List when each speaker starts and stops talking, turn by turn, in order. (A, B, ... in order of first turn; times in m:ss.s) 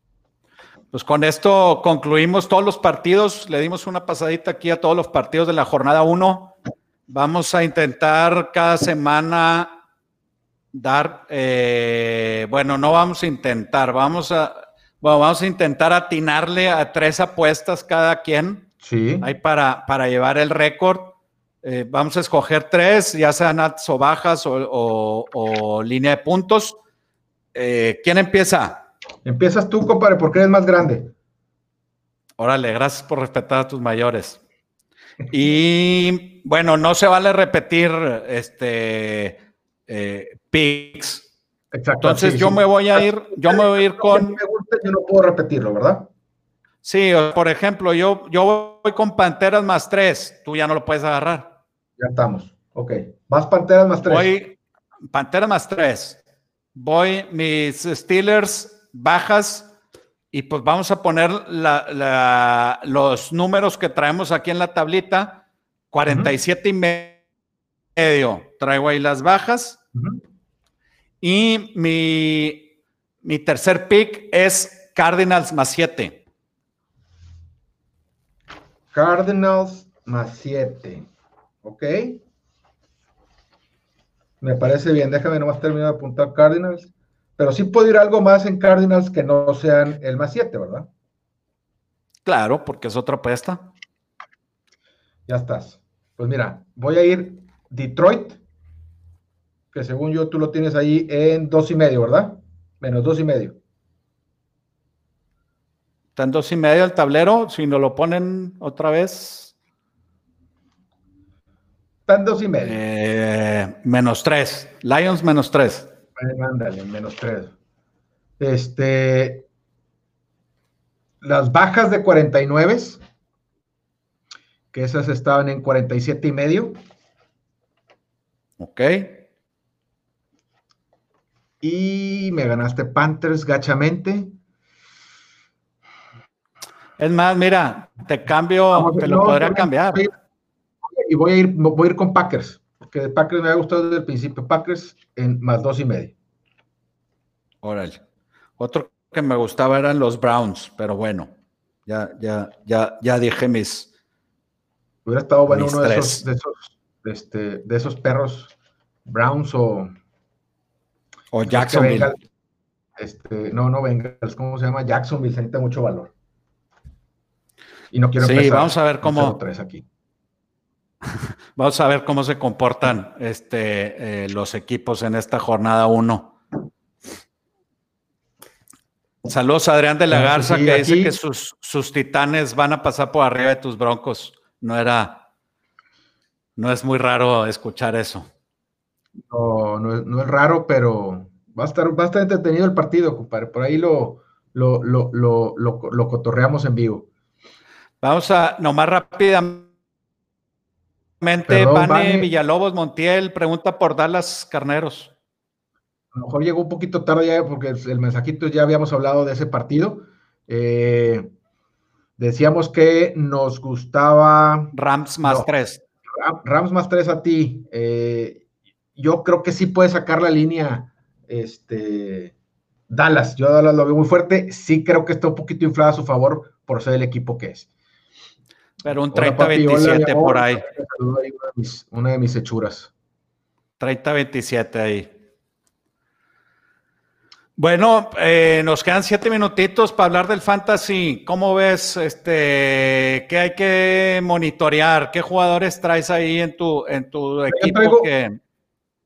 0:00.9-0:06.6 A
0:07.1-0:09.8 A
0:10.7-0:18.7 A
0:18.8-0:19.3 B
0:19.2-0:26.8 A
0:27.5-0:28.8 A
0:29.2-0:31.1 B
0:32.4-0:34.4 A
0:35.3-0:41.3 A
0:41.7-0:46.1 B
0:42.0-0:44.4 A
0:46.8-0:51.6 A
0:52.0-0:54.3 B
0:54.0-0:54.6 A
0:55.1-0:56.2 A
0:56.7-0:59.7 A
1:00.3-1:07.2 A
1:08.0-1:09.8 A
1:11.2-1:12.7 A
1:13.2-1:16.2 A
1:18.9-1:21.1 B
1:21.6-1:22.2 B
1:24.4-1:30.9 B
1:32.2-1:33.7 A
1:35.3-1:38.4 B
1:39.7-1:43.6 B
1:46.2-1:49.5 A
1:52.1-1:52.8 B
1:52.6-1:55.9 A
1:56.2-1:57.5 B
1:58.4-1:59.5 B
2:01.2-2:03.0 B
2:04.7-2:06.8 B
2:08.6-2:09.2 A
2:11.6-2:14.3 B
2:17.0-2:20.0 A
2:18.7-2:20.1 B
2:21.0-2:26.1 B
2:27.6-2:28.0 A
2:28.6-2:31.3 A
2:31.9-2:33.9 A
2:35.0-2:38.5 B
2:35.5-2:36.2 A
2:39.1-2:39.9 B
2:41.3-2:42.1 A
2:41.4-2:42.2 B
2:43.0-2:46.1 B
2:47.9-2:49.8 B
2:48.2-2:49.4 A
2:51.1-2:56.4 A
2:59.3-3:05.2 A
3:00.1-3:01.1 B
3:06.6-3:08.3 A
3:09.3-3:17.1 B
3:18.0-3:19.7 A
3:21.2-3:25.1 A
3:21.5-3:22.3 B
3:26.1-3:31.3 B
3:32.2-3:35.5 B
3:34.7-3:35.8 A
3:36.2-3:38.4 B
3:39.0-3:42.3 B
3:42.9-3:47.7 B
3:48.8-3:50.6 A
3:49.1-3:52.9 B
3:53.8-3:55.1 A
3:57.6-4:08.4 A
4:07.5-4:08.1 B